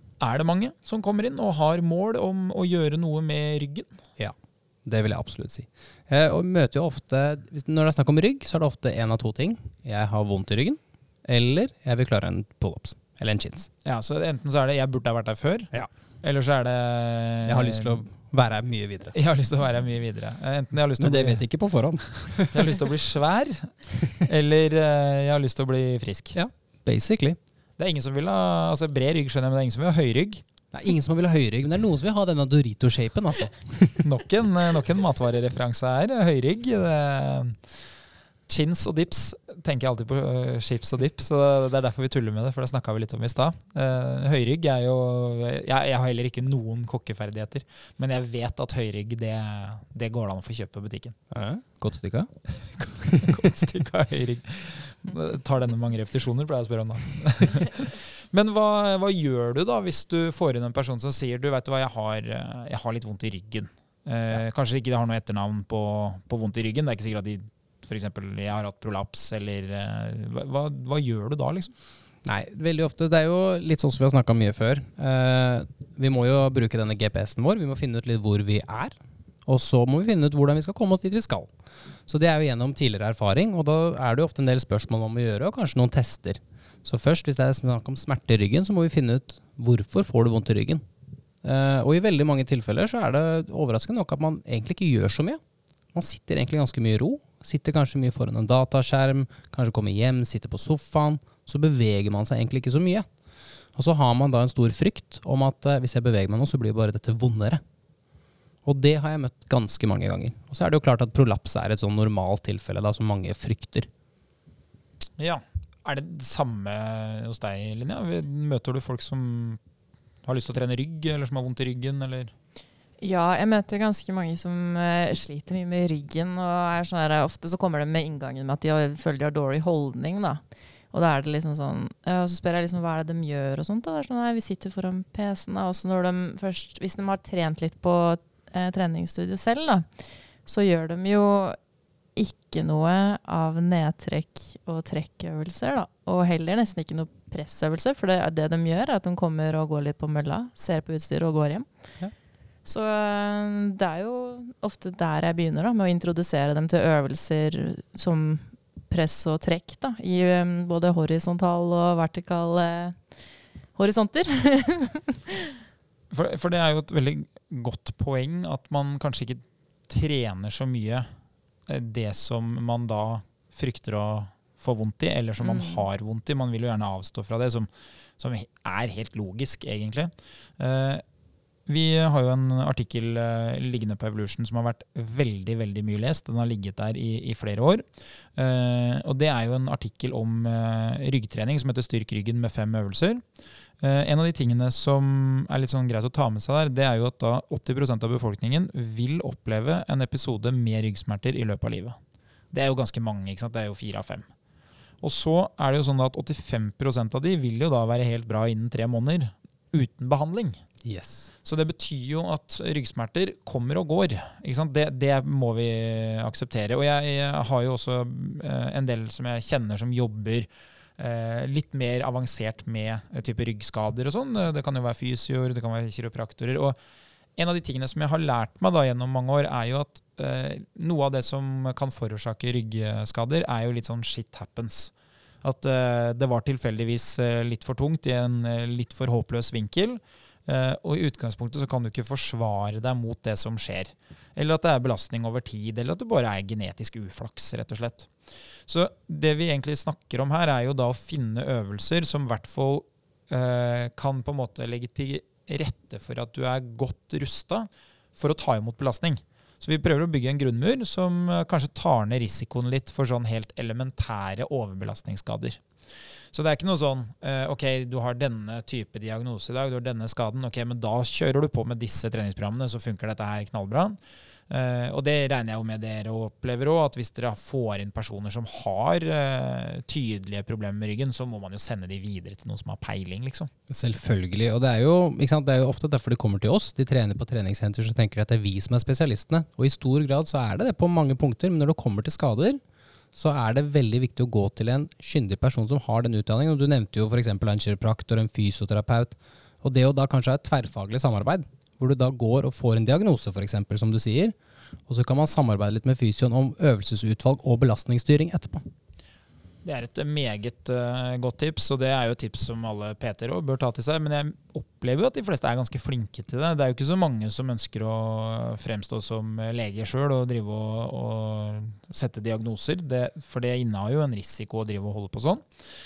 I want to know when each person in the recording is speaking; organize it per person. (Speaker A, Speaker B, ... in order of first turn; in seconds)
Speaker A: 0.2-3.9, 13.8-15.7, 16.2-18.0, 19.1-21.4, 22.5-26.4, 27.8-30.4, 34.0-37.8, 38.5-51.1, 52.8-71.7, 115.2-119.6, 120.2-122.3, 166.1-171.1, 171.7-177.7, 178.2-181.0, 181.7-193.2, 193.8-202.0, 202.5-204.2, 205.0-210.6, 211.4-226.8, 227.4-234.9, 235.4-248.1, 248.7-265.6, 266.3-274.0, 274.5-283.5, 309.6-325.4
Speaker B: 4.2-13.7, 17.4-19.1, 21.0-22.8, 26.3-27.4, 30.7-34.0, 51.3-52.3, 53.0-53.4, 72.2-78.9, 79.5-81.5, 82.1-90.8, 91.4-95.4, 95.9-103.1, 103.7-107.6, 108.6-113.9, 210.8-211.3, 283.7-292.6, 293.1-304.4, 304.9-308.6
Speaker C: 123.0-130.4, 130.9-139.9, 140.4-141.6, 142.2-151.7, 152.6-163.0, 163.8-165.6, 175.4-175.8